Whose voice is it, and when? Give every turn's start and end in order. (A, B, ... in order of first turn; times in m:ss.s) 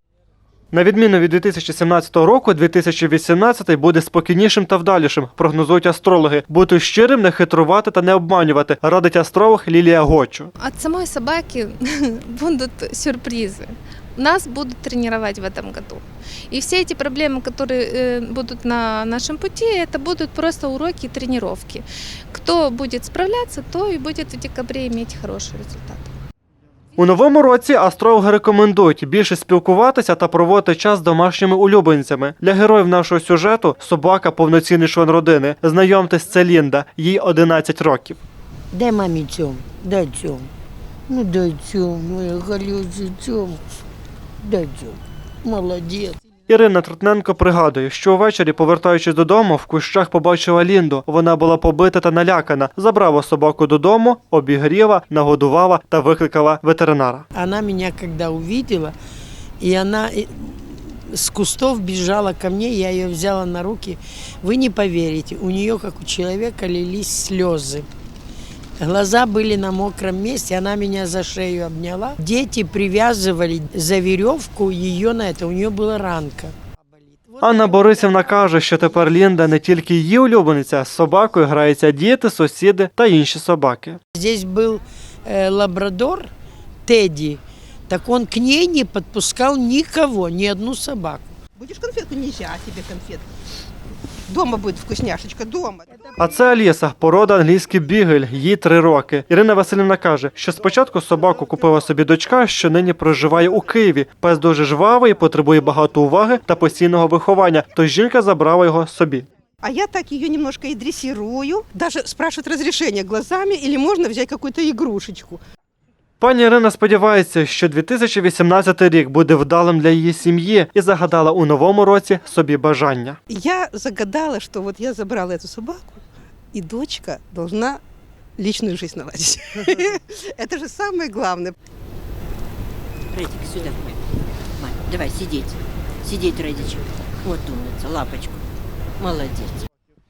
0:00.7-0:10.5 A
0:10.6-0:26.1 B
0:27.0-0:38.2 A
0:38.7-0:40.5 C
0:41.1-0:43.6 C
0:44.4-0:46.2 C
0:46.5-0:57.2 A
0:57.3-0:58.9 C
0:59.6-1:07.8 C
1:08.8-1:17.4 C
1:17.4-1:24.0 A
1:24.2-1:26.3 C
1:26.8-1:31.3 C
1:31.6-1:33.3 D
1:34.3-1:35.9 D
1:36.2-1:49.2 A
1:49.6-1:55.4 D
1:56.2-2:03.2 A
2:03.3-2:07.8 D
2:08.4-2:11.5 D
2:13.1-2:14.0 E
2:14.6-2:18.4 E
2:19.0-2:19.6 E